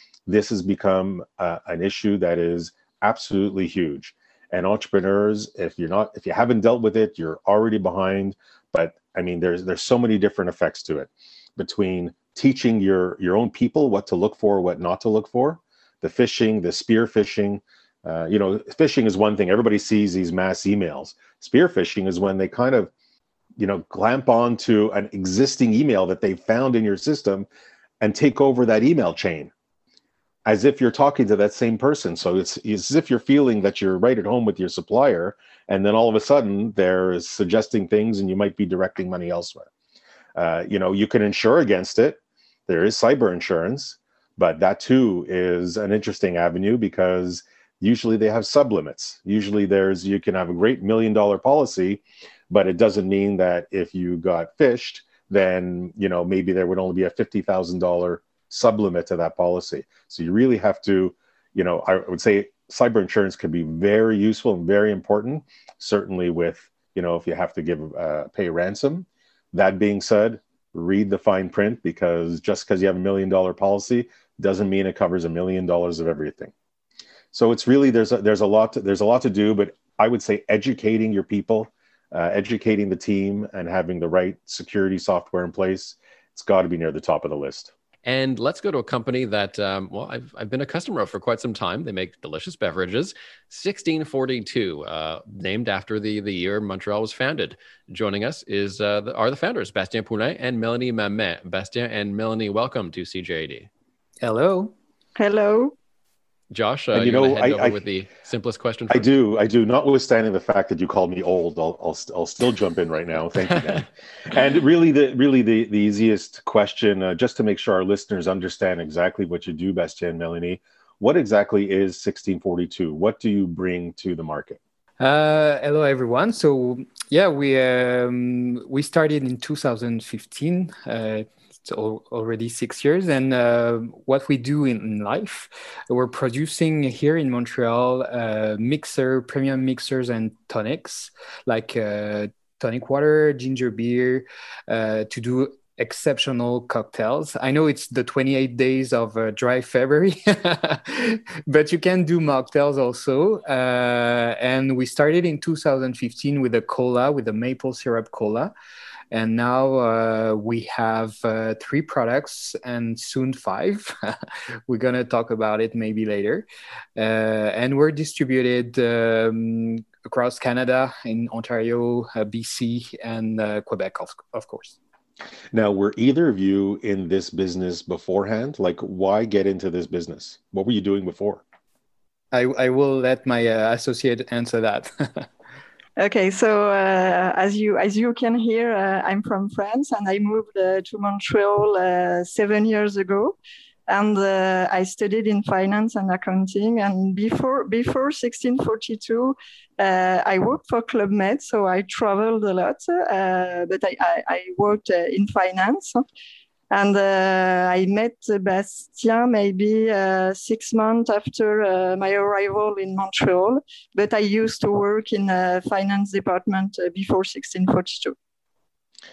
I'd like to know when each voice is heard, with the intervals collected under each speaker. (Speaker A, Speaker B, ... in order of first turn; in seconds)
Speaker A: 0.3-22.9, 23.6-27.5, 28.0-29.5, 30.5-39.7, 40.4-76.5, 77.3-87.7, 106.9-107.8, 108.9-124.6, 175.5-181.4
Speaker B: 88.1-103.7, 106.5-109.1
Speaker C: 104.2-104.7, 125.0-158.5, 159.1-163.9, 164.7-174.8, 182.3-185.3
Speaker D: 105.2-105.7, 186.0-193.4, 193.9-206.0, 206.7-218.2